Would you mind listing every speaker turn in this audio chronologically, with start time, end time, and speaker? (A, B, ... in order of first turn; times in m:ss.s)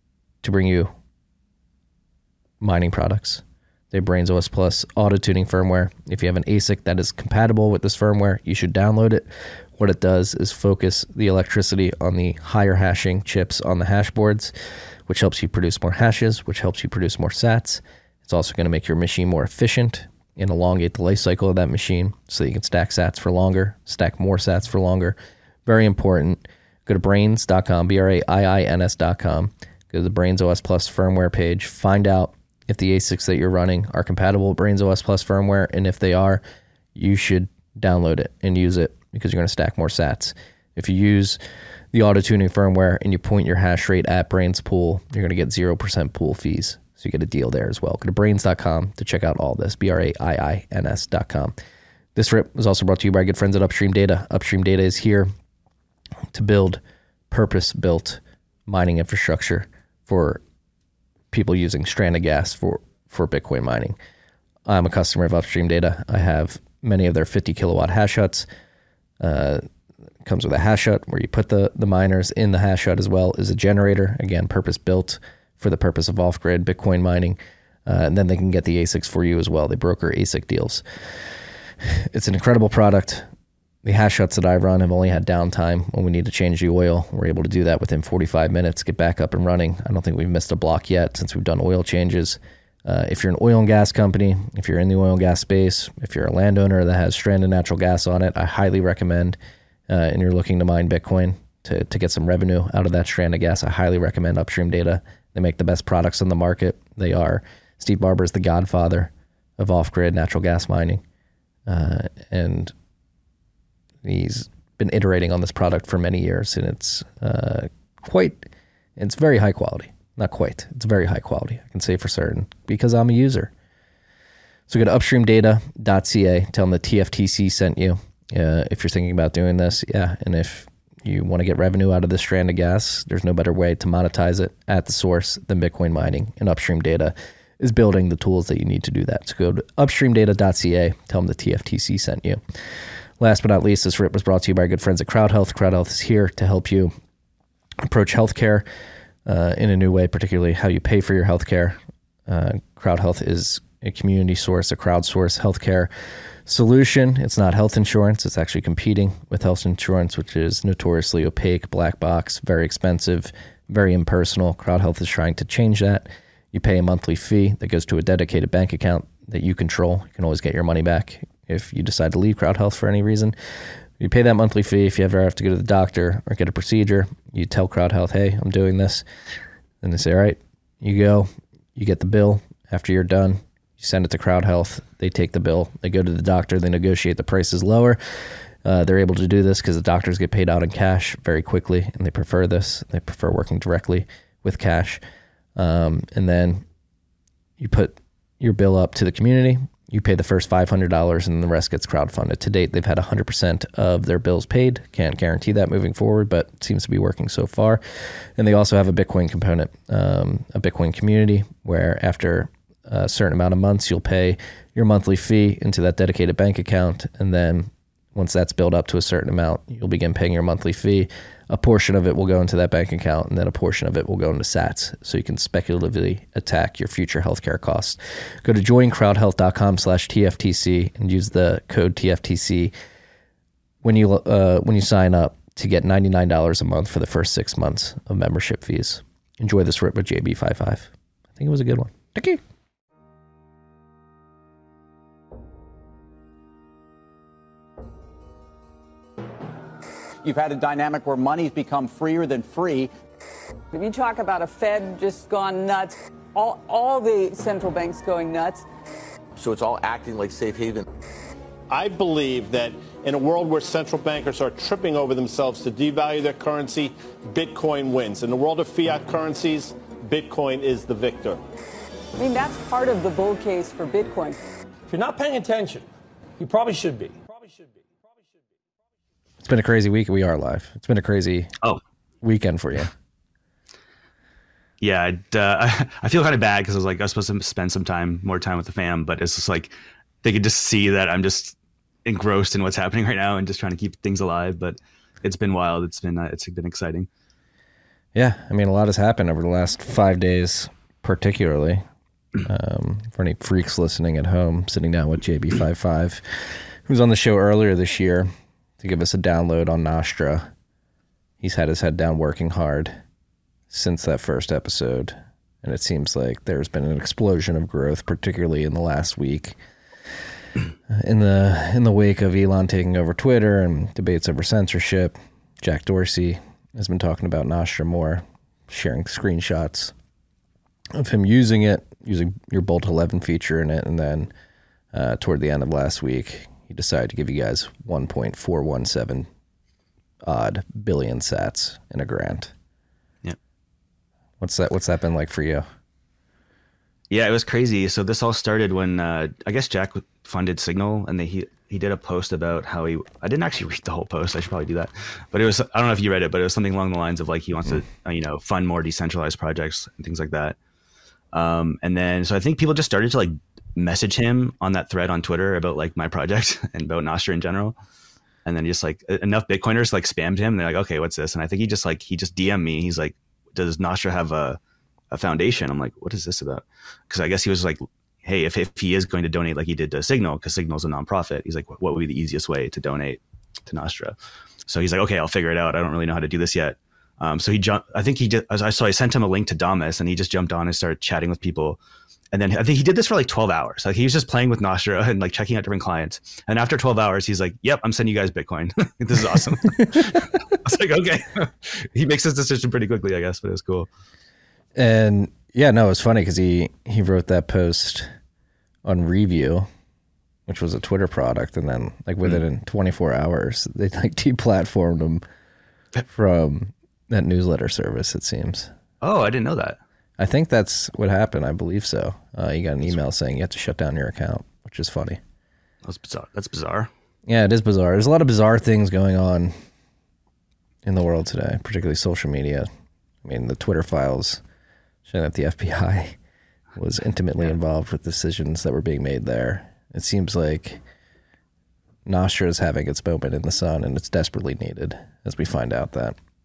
0:00.4-0:00.9 A
0:02.6-0:09.3 A
0:09.8-0:14.5 A
0:15.1-0:36.4 A
0:36.9-0:41.4 A
0:41.9-0:51.5 A
0:52.1-0:55.3 A
0:56.3-1:00.4 A
1:01.3-1:04.0 A
1:04.6-1:08.5 A
1:09.2-1:09.6 A
1:10.2-1:20.8 A
1:21.8-1:23.3 A
1:23.8-1:39.4 A
1:39.9-1:51.0 A
1:51.7-1:52.7 A
1:54.0-2:03.5 A
2:04.7-2:22.4 A
2:23.2-2:26.9 A
2:27.8-2:28.6 A
2:29.2-2:35.9 A
2:36.4-2:53.3 A
2:54.0-2:59.0 A
2:59.8-3:15.0 A
3:15.6-3:16.6 A
3:17.6-3:52.7 A
3:53.8-4:02.4 A
4:10.2-4:12.9 B
4:13.7-4:18.6 C
4:19.4-4:20.8 B
4:21.7-4:31.4 D
4:32.2-4:34.4 C
4:34.9-4:35.9 E
4:36.4-4:38.4 E
4:39.4-4:41.5 A
4:42.2-4:42.9 A
4:44.8-4:57.1 F
4:58.1-5:01.8 A
5:02.4-5:10.5 A
5:11.4-5:13.0 A
5:13.7-5:19.6 A
5:20.9-5:29.9 A
5:30.9-5:34.3 A
5:34.9-5:39.3 A
5:40.2-5:42.5 A
5:44.4-5:45.6 A
5:47.1-6:00.6 F
6:01.3-6:07.8 F
6:08.4-6:14.6 F
6:15.1-6:31.8 F
6:32.3-6:43.9 F
6:44.7-6:48.1 A
6:48.8-6:49.7 A
6:50.5-6:55.2 A
6:56.1-6:58.7 A
6:59.0-6:59.8 F
7:00.2-7:05.2 A
7:05.8-7:06.9 F
7:07.2-7:09.5 A
7:10.8-7:12.7 A
7:13.2-7:14.4 A
7:15.0-7:16.2 A
7:16.8-7:20.8 A
7:22.0-7:26.2 A